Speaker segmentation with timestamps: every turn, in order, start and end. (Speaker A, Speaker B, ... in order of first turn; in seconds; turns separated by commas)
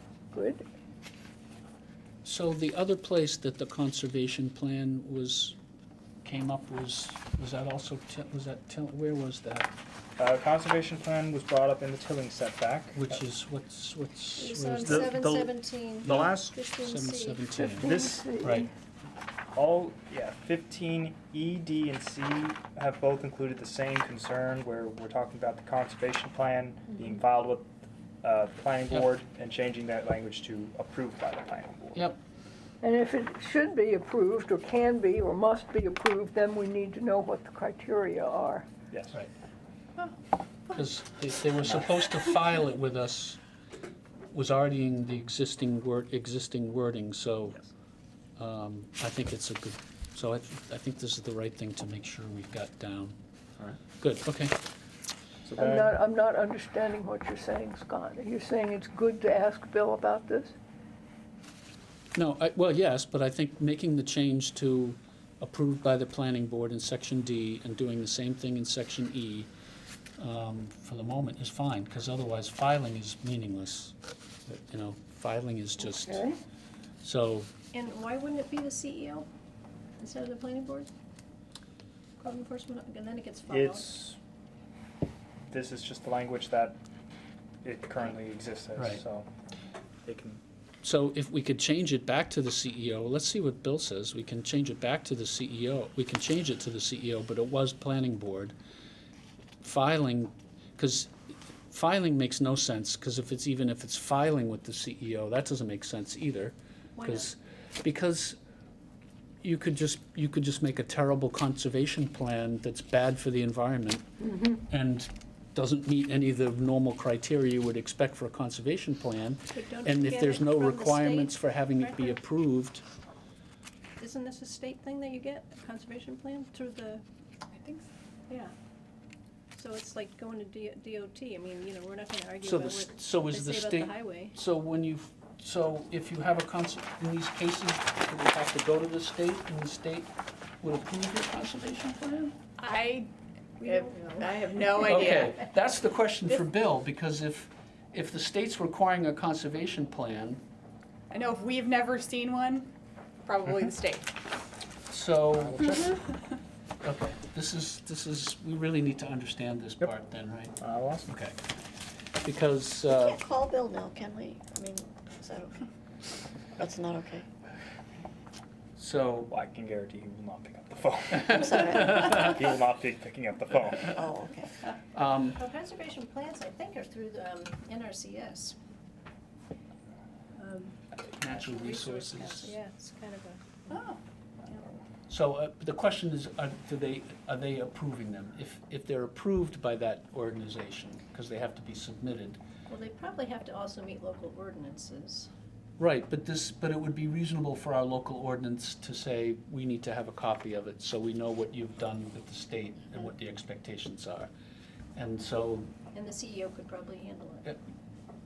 Speaker A: 0.3-0.6, Speaker B: 2.2-5.6, Speaker B: 6.2-9.7, Speaker C: 10.2-13.2, Speaker B: 12.9-15.2, Speaker D: 14.4-17.4, Speaker C: 14.8-16.5, Speaker B: 16.0-18.7, Speaker A: 17.5-18.7, Speaker C: 17.8-18.3, Speaker C: 19.5-27.7, Speaker C: 28.2-32.0, Speaker A: 32.8-38.7, Speaker C: 38.9-39.2, Speaker B: 40.7-43.4, Speaker B: 44.3-47.6, Speaker B: 48.4-53.1, Speaker B: 54.0-54.6, Speaker C: 55.4-55.9, Speaker A: 55.6-60.5, Speaker B: 62.1-69.5, Speaker B: 70.2-74.0, Speaker B: 74.5-76.2, Speaker A: 75.8-76.3, Speaker B: 77.0-77.5, Speaker D: 77.7-79.3, Speaker D: 80.0-80.9, Speaker D: 82.2-84.0, Speaker C: 83.5-84.2, Speaker C: 85.5-86.8, Speaker C: 87.6-89.3, Speaker B: 88.8-89.0, Speaker C: 90.0-90.4, Speaker B: 90.8-98.5, Speaker B: 99.6-101.1, Speaker B: 101.7-108.4, Speaker D: 107.0-107.3, Speaker B: 109.4-122.8, Speaker D: 119.5-122.2, Speaker D: 124.0-127.0, Speaker E: 127.5-127.8, Speaker D: 128.3-128.5, Speaker D: 129.6-134.4, Speaker B: 132.4-140.1, Speaker B: 140.6-142.3, Speaker E: 142.6-143.1, Speaker D: 143.6-145.0, Speaker E: 143.6-145.4, Speaker B: 144.8-150.4, Speaker E: 151.1-152.7, Speaker E: 153.2-154.1, Speaker B: 154.9-155.6, Speaker C: 155.4-156.0, Speaker B: 156.8-161.3, Speaker C: 160.6-161.1, Speaker B: 162.2-163.2, Speaker F: 162.9-165.6, Speaker F: 166.6-167.2, Speaker B: 168.8-169.3, Speaker C: 169.3-174.2, Speaker B: 171.8-172.1, Speaker F: 173.9-174.4, Speaker B: 174.9-175.4, Speaker D: 175.3-178.6, Speaker D: 180.3-183.7, Speaker B: 181.2-182.6, Speaker E: 183.7-184.0, Speaker C: 184.4-184.7, Speaker B: 185.1-192.4, Speaker D: 192.7-195.3, Speaker B: 195.8-204.3, Speaker B: 204.9-205.7, Speaker D: 205.9-207.5